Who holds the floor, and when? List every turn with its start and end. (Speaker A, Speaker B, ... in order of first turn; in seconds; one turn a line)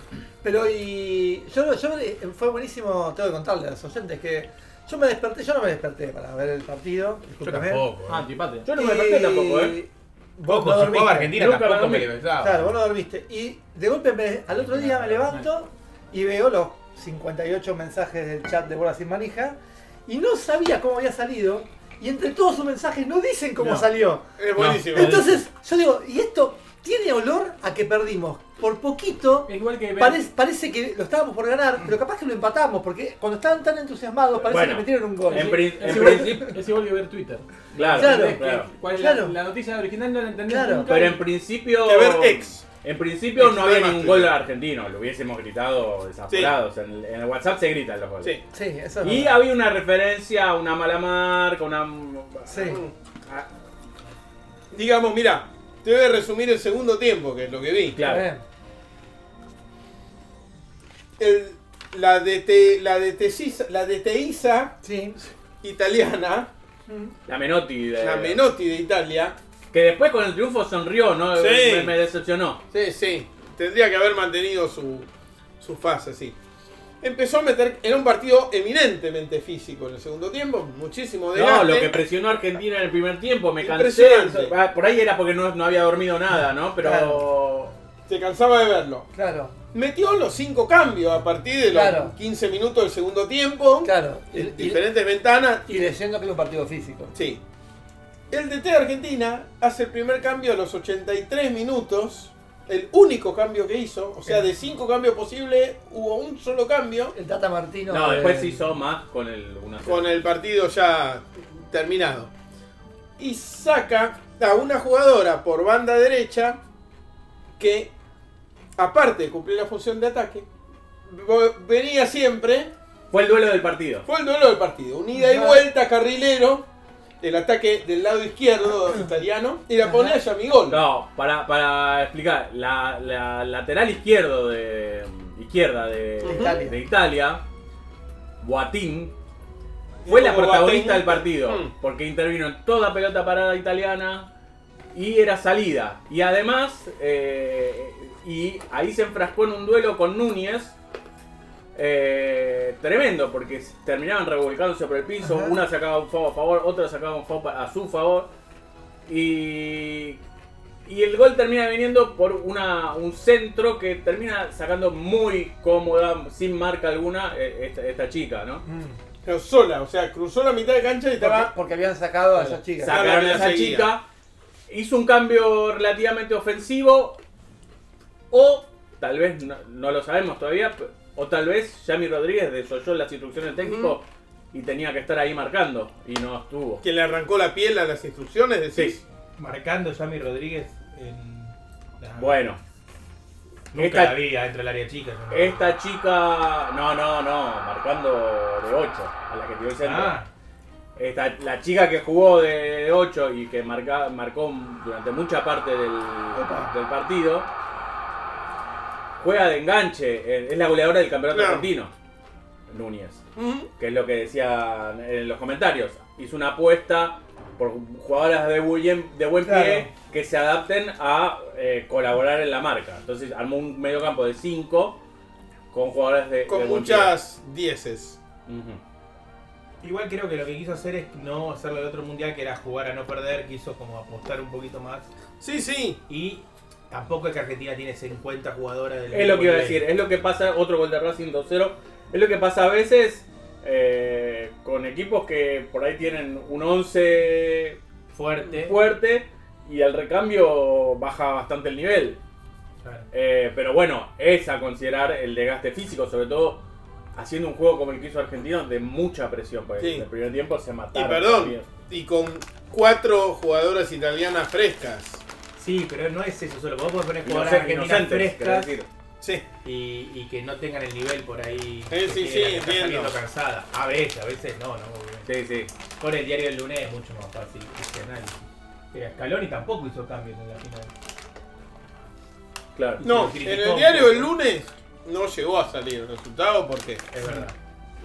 Speaker A: 0.4-7.8
Speaker B: 7.4-8.2
Speaker C: 8.0-8.7
Speaker D: 8.6-9.8
Speaker A: 8.8-11.4
Speaker B: 10.4-12.8
Speaker D: 11.3-12.2
Speaker A: 12.3-24.3
Speaker C: 14.6-15.5
Speaker E: 24.4-25.3
Speaker B: 24.9-25.2
Speaker A: 24.9-36.6
Speaker C: 29.4-30.2
Speaker D: 34.4-36.5
Speaker C: 35.3-41.2
Speaker D: 37.7-38.7
Speaker A: 37.9-39.3
Speaker A: 40.5-40.9
Speaker D: 40.9-48.3
Speaker E: 41.8-42.6
Speaker E: 43.4-44.3
Speaker E: 46.3-46.5
Speaker A: 48.5-49.4
Speaker D: 49.0-53.5
Speaker A: 52.5-52.8
Speaker E: 52.6-52.9
Speaker E: 54.7-58.0
Speaker D: 57.9-58.3
Speaker A: 58.0-58.4
Speaker E: 61.2-66.5
Speaker A: 64.8-65.2
Speaker A: 66.9-67.1
Speaker D: 67.3-68.4
Speaker E: 68.0-69.4
Speaker D: 69.7-72.6
Speaker E: 71.3-71.9
Speaker E: 72.7-75.1
Speaker E: 75.6-76.3
Speaker E: 77.0-81.9
Speaker D: 81.3-87.7
Speaker E: 83.6-84.5
Speaker A: 86.8-87.2
Speaker E: 88.1-89.1
Speaker A: 89.1-89.5
Speaker E: 89.7-95.7
Speaker A: 91.7-92.2
Speaker A: 93.8-94.8
Speaker A: 95.7-97.1
Speaker E: 97.1-97.4
Speaker E: 98.3-107.1
Speaker A: 107.1-108.6
Speaker D: 107.9-110.2
Speaker E: 109.8-112.3
Speaker E: 113.2-116.6
Speaker E: 117.6-117.9
Speaker E: 118.8-120.5
Speaker E: 121.0-122.7
Speaker D: 123.1-124.0
Speaker E: 124.0-126.7
Speaker A: 125.1-125.6
Speaker E: 127.2-130.8
Speaker A: 129.8-130.2
Speaker D: 130.7-137.4
Speaker A: 136.2-136.8
Speaker E: 136.2-136.7
Speaker D: 138.4-139.1
Speaker E: 140.0-141.7
Speaker D: 140.1-144.3
Speaker D: 144.9-150.7
Speaker D: 151.7-158.3
Speaker A: 155.2-155.6
Speaker D: 159.1-160.2
Speaker D: 160.8-168.6
Speaker A: 168.7-169.0
Speaker E: 169.2-171.5
Speaker A: 171.2-173.1
Speaker D: 172.7-174.1
Speaker E: 172.8-173.9
Speaker D: 174.7-177.2
Speaker D: 178.3-186.8
Speaker E: 183.6-183.9
Speaker E: 186.8-189.0
Speaker B: 189.4-192.4
Speaker D: 192.2-192.6
Speaker B: 193.7-195.8
Speaker D: 193.7-194.2
Speaker D: 195.3-200.2
Speaker B: 199.8-200.3
Speaker D: 200.9-207.5
Speaker A: 206.3-206.7
Speaker D: 209.2-211.9
Speaker E: 211.3-211.7
Speaker D: 212.7-213.2
Speaker E: 213.3-213.7
Speaker D: 213.8-225.0
Speaker A: 219.4-219.9
Speaker D: 225.7-227.2
Speaker E: 226.5-228.2
Speaker D: 228.4-228.8
Speaker B: 229.8-235.1
Speaker E: 235.4-236.0
Speaker B: 236.1-239.8
Speaker D: 239.1-247.8
Speaker B: 248.1-248.8
Speaker D: 248.4-252.2
Speaker B: 252.8-253.1
Speaker D: 253.1-256.6
Speaker D: 257.1-261.7
Speaker E: 259.8-260.0
Speaker E: 260.9-265.2
Speaker B: 265.6-268.7
Speaker D: 267.2-268.9
Speaker E: 269.2-269.4
Speaker B: 269.6-275.3
Speaker E: 271.9-273.2
Speaker D: 275.2-275.7
Speaker B: 276.0-280.9
Speaker D: 282.7-283.0
Speaker B: 283.0-284.3
Speaker E: 283.0-287.1
Speaker B: 287.1-287.5